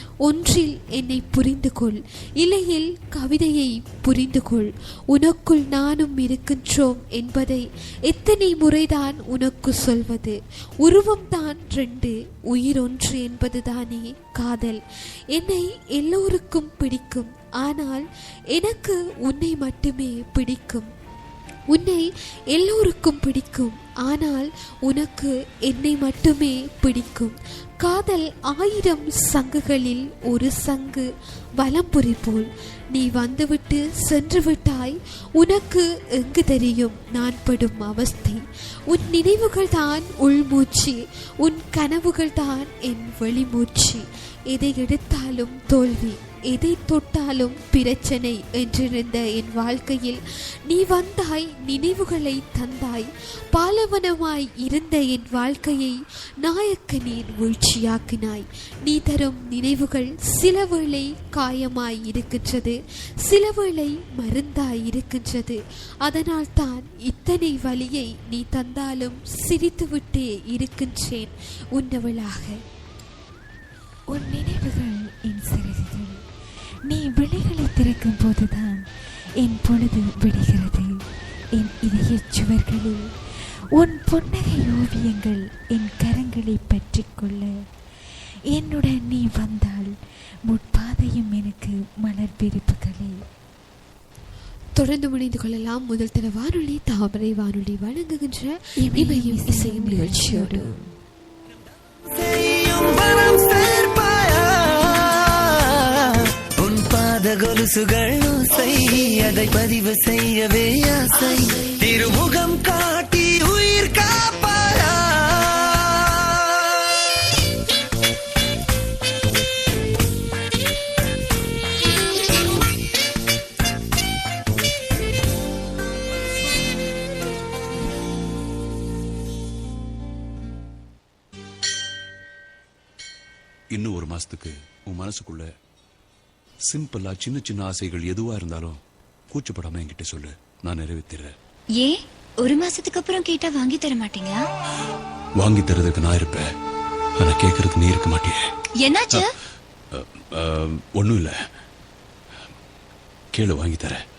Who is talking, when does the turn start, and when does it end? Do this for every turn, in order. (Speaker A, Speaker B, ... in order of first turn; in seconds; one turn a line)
Speaker A: 0.2-14.8
Speaker A: 15.3-20.9
Speaker A: 21.7-31.1
Speaker A: 31.6-72.6
Speaker B: 74.1-76.2
Speaker B: 76.9-78.8
Speaker B: 79.4-80.9
Speaker B: 81.5-83.1
Speaker B: 83.8-87.5
Speaker B: 88.5-89.9
Speaker B: 90.5-93.2
Speaker A: 94.8-100.7
Speaker B: 98.8-100.8
Speaker C: 102.1-116.8
Speaker D: 133.7-135.5
Speaker D: 136.7-141.3
Speaker E: 141.8-144.4
Speaker D: 145.4-146.5
Speaker D: 147.2-148.4
Speaker E: 148.8-149.3
Speaker D: 149.9-151.3
Speaker D: 153.3-154.0